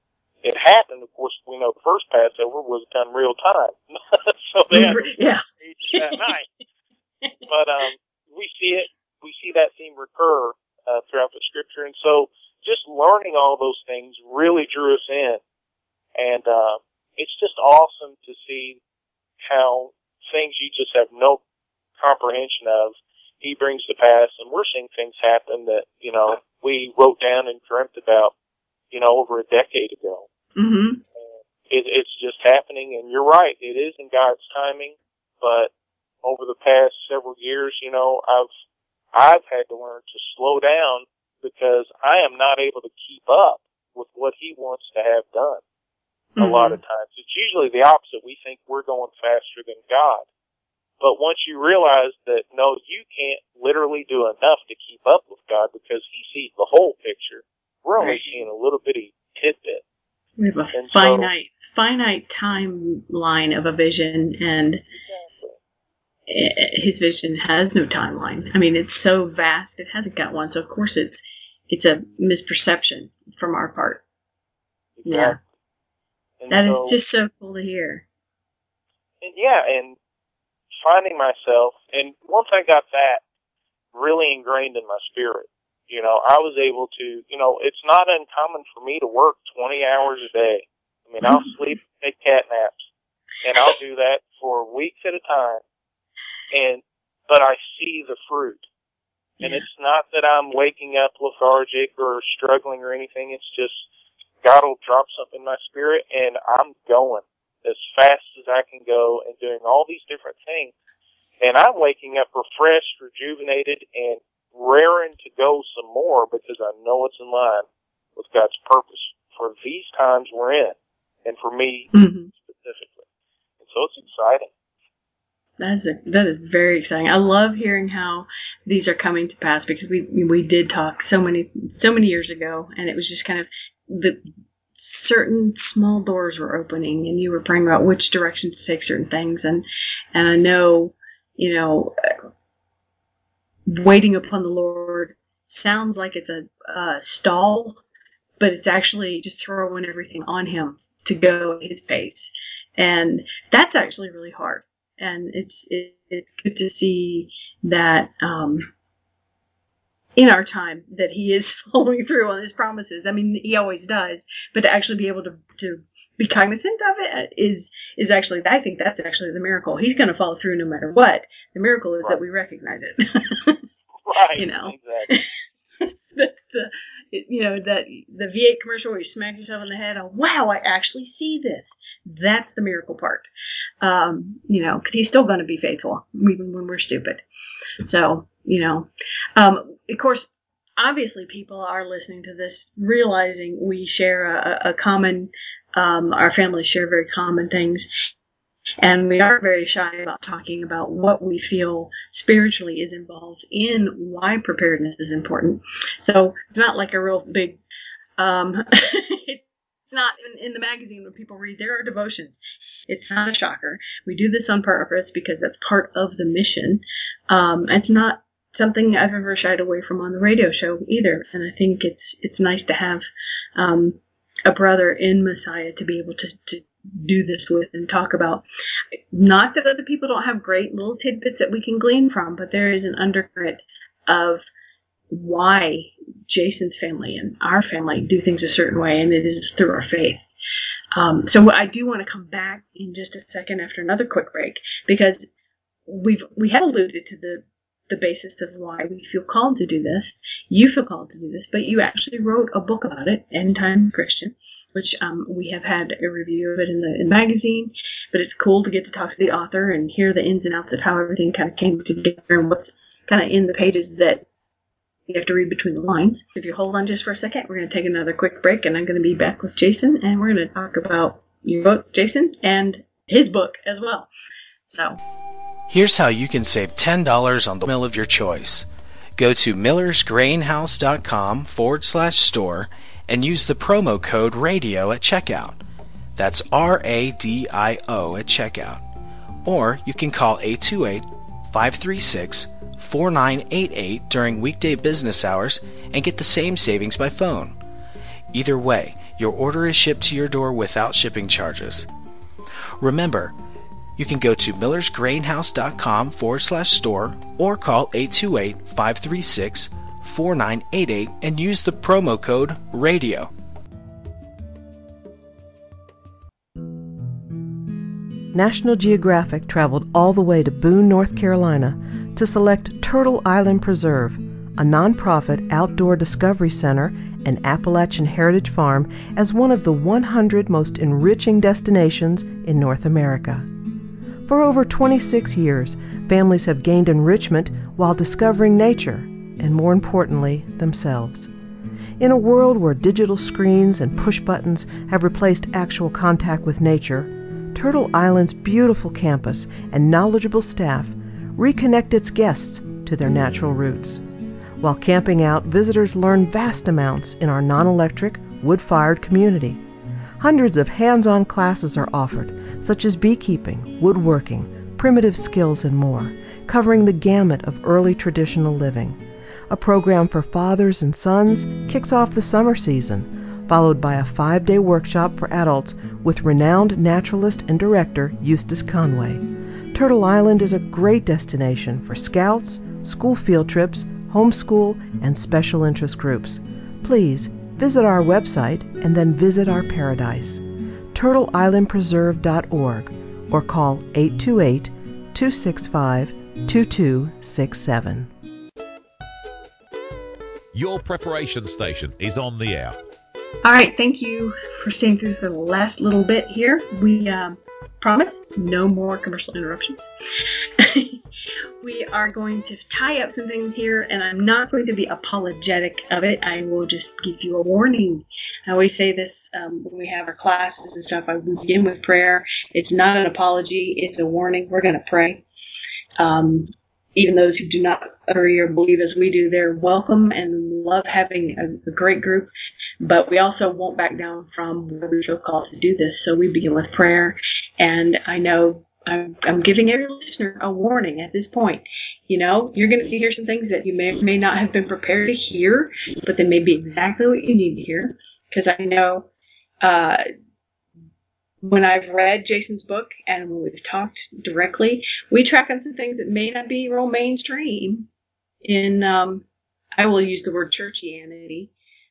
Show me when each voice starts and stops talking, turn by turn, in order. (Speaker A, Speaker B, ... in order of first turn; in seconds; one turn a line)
Speaker A: 0.4-6.5
Speaker B: 4.7-6.3
Speaker A: 7.5-15.4
Speaker A: 16.1-18.8
Speaker A: 19.4-21.4
Speaker A: 22.0-28.3
Speaker A: 28.9-30.2
Speaker B: 30.6-31.0
Speaker A: 31.1-35.7
Speaker A: 36.2-38.5
Speaker A: 39.1-45.6
Speaker B: 46.3-46.8
Speaker A: 46.4-50.2
Speaker A: 51.0-59.8
Speaker B: 58.0-58.4
Speaker B: 60.4-64.8
Speaker A: 60.7-61.3
Speaker A: 64.9-65.6
Speaker B: 66.3-74.0
Speaker A: 75.0-75.4
Speaker B: 75.0-75.4
Speaker A: 76.4-77.0
Speaker B: 76.5-78.0
Speaker A: 79.2-80.0
Speaker A: 80.8-83.2
Speaker A: 83.9-92.9
Speaker B: 91.2-91.5
Speaker A: 93.4-95.6
Speaker A: 96.5-98.7
Speaker A: 99.4-103.9
Speaker A: 104.4-110.7
Speaker A: 111.4-123.0
Speaker B: 121.9-122.3
Speaker A: 123.6-124.5
Speaker B: 125.6-134.2
Speaker B: 134.8-142.0
Speaker B: 143.7-147.8
Speaker B: 148.4-152.2
Speaker B: 152.8-158.7
Speaker B: 160.2-173.6
Speaker A: 174.1-175.2
Speaker B: 174.4-175.2
Speaker B: 175.8-183.3
Speaker B: 183.8-187.2
Speaker B: 187.8-197.9
Speaker B: 198.8-207.6
Speaker B: 208.2-212.4
Speaker B: 212.9-228.4
Speaker B: 229.1-234.4
Speaker B: 235.1-240.2
Speaker B: 240.9-245.2
Speaker B: 245.8-264.2
Speaker B: 265.1-274.1
Speaker B: 274.7-275.0
Speaker C: 275.7-285.6
Speaker C: 286.1-288.9
Speaker C: 289.4-297.6
Speaker C: 298.3-301.9
Speaker C: 302.8-303.4
Speaker C: 304.0-313.3
Speaker D: 318.3-333.5
Speaker D: 334.2-341.3
Speaker D: 342.0-354.0
Speaker D: 354.6-359.6
Speaker D: 360.2-398.1
Speaker E: 400.5-402.8
Speaker B: 403.4-409.9
Speaker B: 410.6-411.0
Speaker B: 411.6-425.2
Speaker B: 426.0-449.1
Speaker B: 449.6-450.0
Speaker B: 451.4-457.9
Speaker B: 458.4-459.2
Speaker B: 459.8-461.5